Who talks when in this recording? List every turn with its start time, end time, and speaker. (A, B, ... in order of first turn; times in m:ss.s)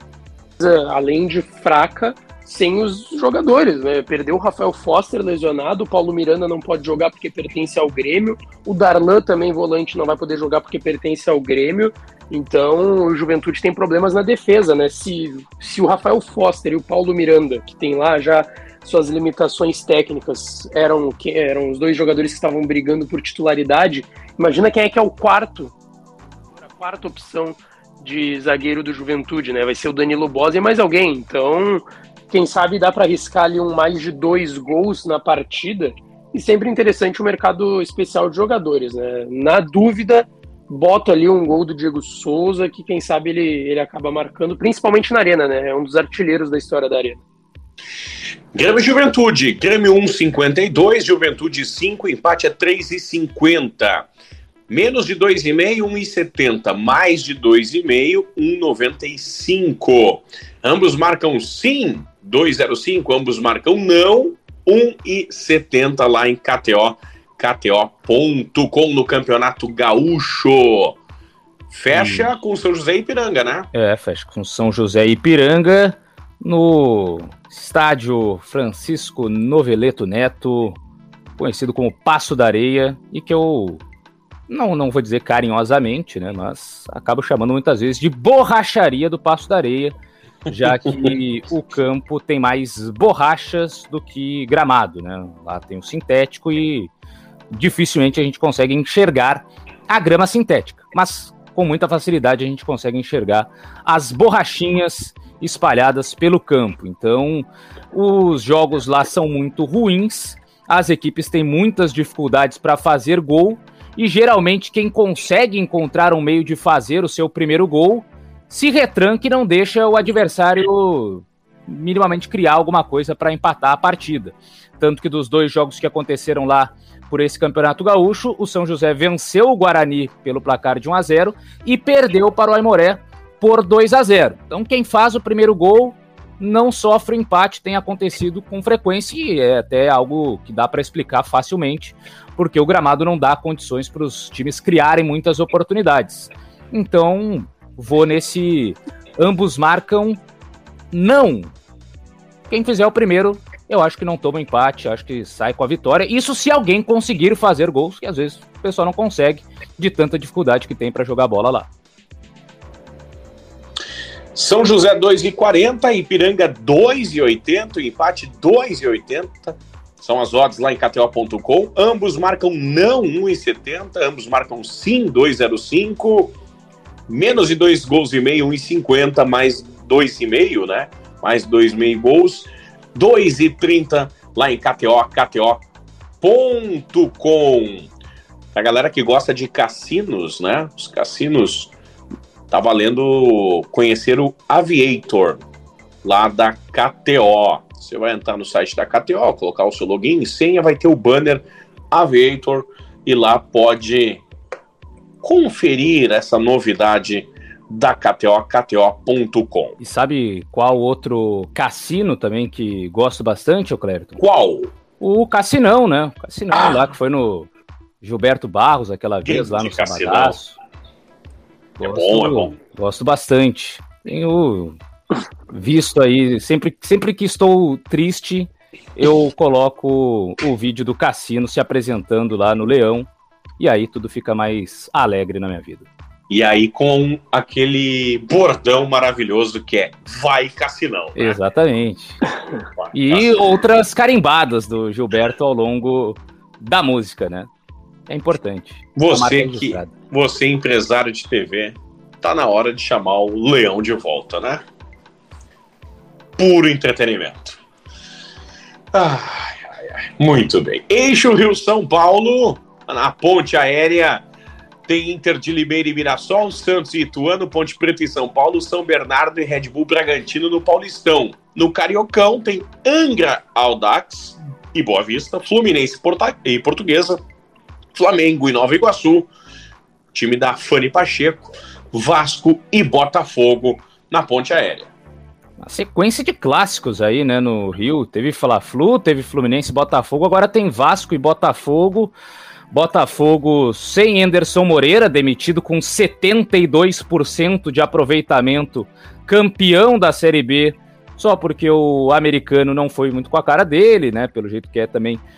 0:00.6-0:25.7 A
0:26.6-0:47.2 A
0:48.5-0:54.1 B
0:54.7-1:11.0 B
1:11.7-1:13.7 B
1:11.9-1:12.3 C
1:13.7-1:20.8 C
1:21.4-1:23.8 C
1:24.5-1:29.9 C
1:30.5-1:36.9 C
1:37.5-2:30.2 C
2:30.9-2:31.5 C
2:32.5-2:41.7 C
2:44.3-2:56.4 B
2:57.1-3:05.6 B
3:06.2-3:07.9 B
3:08.5-3:11.7 B
3:12.5-3:15.4 B
3:16.0-3:24.2 B
3:25.2-3:29.8 B
3:29.8-3:34.2 C
3:34.2-3:34.7 B
3:35.0-3:37.5 C
3:38.0-3:40.6 C
3:39.2-3:40.4 B
3:41.8-3:44.8 C
3:41.8-3:42.6 B
3:45.5-3:53.1 C
3:53.6-3:55.9 C
3:56.3-4:01.4 B
4:01.2-4:02.2 C
4:02.8-4:03.4 B
4:02.9-4:07.5 C
4:08.1-4:09.9 C
4:09.0-4:14.6 B
4:16.4-4:17.6 B
4:18.9-4:24.2 B
4:24.9-4:37.2 B
4:37.9-4:39.3 B
4:40.1-4:44.9 B
4:45.6-4:52.1 C
4:52.7-5:05.2 C